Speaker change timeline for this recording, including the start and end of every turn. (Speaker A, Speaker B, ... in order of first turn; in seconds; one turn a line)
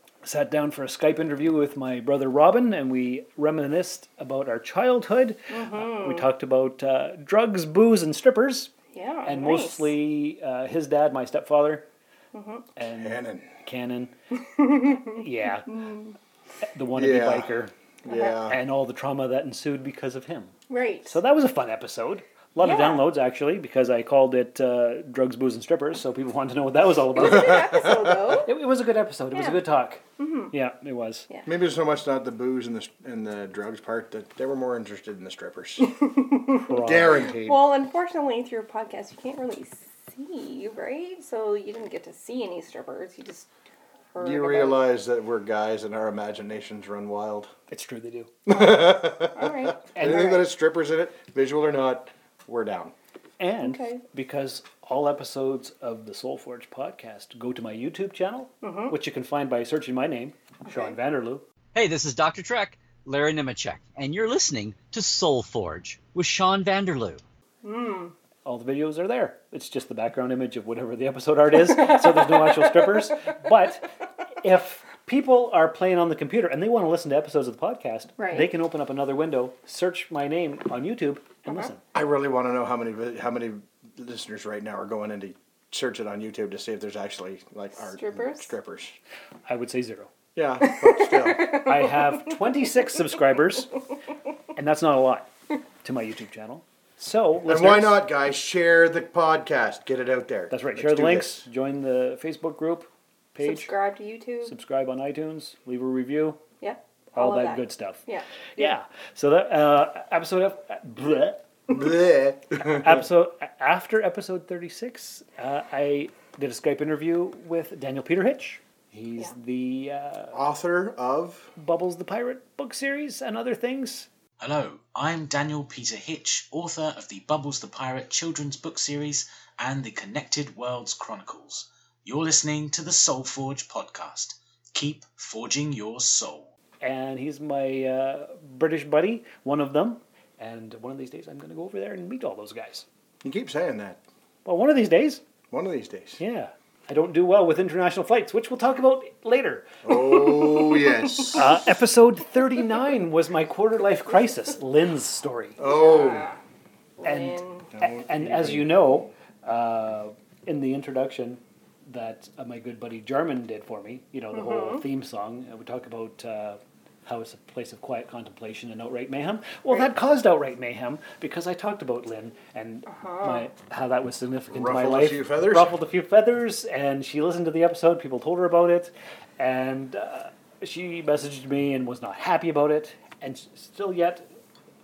Speaker A: 0.2-8.7
Speaker B: 5.5-6.2
Speaker B: 8.9-9.9
Speaker A: 9.2-11.8
Speaker B: 12.3-12.6
Speaker A: 12.8-14.1
Speaker C: 12.9-13.5
Speaker B: 14.6-16.1
Speaker A: 15.1-15.7
Speaker A: 16.7-17.7
Speaker C: 16.9-17.5
Speaker C: 18.0-18.6
Speaker B: 18.1-18.4
Speaker A: 18.5-20.5
Speaker B: 20.7-21.2
Speaker A: 21.1-27.8
Speaker B: 22.6-23.1
Speaker B: 27.1-28.5
Speaker C: 27.2-28.3
Speaker A: 28.4-31.3
Speaker B: 29.3-29.6
Speaker B: 30.2-30.5
Speaker C: 31.4-35.9
Speaker B: 35.9-43.5
Speaker A: 36.6-37.2
Speaker C: 36.8-37.7
Speaker B: 44.1-44.8
Speaker C: 44.2-47.5
Speaker A: 47.7-48.3
Speaker C: 48.5-52.9
Speaker B: 49.3-50.4
Speaker A: 49.9-50.3
Speaker A: 53.4-61.4
Speaker B: 53.6-54.0
Speaker B: 58.6-58.9
Speaker B: 60.7-61.0
Speaker D: 61.7-67.2
Speaker B: 67.6-68.1
Speaker A: 68.4-73.9
Speaker A: 74.4-81.8
Speaker B: 78.2-78.5
Speaker C: 81.9-89.0
Speaker B: 87.8-88.5
Speaker A: 89.5-90.1
Speaker C: 90.3-91.7
Speaker B: 90.9-92.2
Speaker A: 91.5-93.7
Speaker A: 94.5-95.3
Speaker A: 95.8-98.1
Speaker C: 97.5-101.4
Speaker A: 100.5-103.7
Speaker B: 103.4-104.5
Speaker A: 104.4-106.4
Speaker B: 106.6-108.7
Speaker A: 107.1-108.0
Speaker A: 108.6-111.4
Speaker C: 111.7-113.0
Speaker A: 112.6-120.4
Speaker C: 120.3-121.5
Speaker A: 121.5-124.1
Speaker E: 124.4-136.5
Speaker A: 136.8-142.8
Speaker C: 143.2-144.0
Speaker A: 144.4-145.2
Speaker C: 145.5-146.2
Speaker A: 146.2-149.8
Speaker C: 149.8-151.6
Speaker A: 151.3-155.6
Speaker C: 155.6-156.3
Speaker B: 155.6-156.4
Speaker B: 157.0-157.7
Speaker A: 157.0-184.2
Speaker C: 157.7-158.9
Speaker B: 164.3-164.8
Speaker B: 172.9-173.5
Speaker C: 174.5-175.7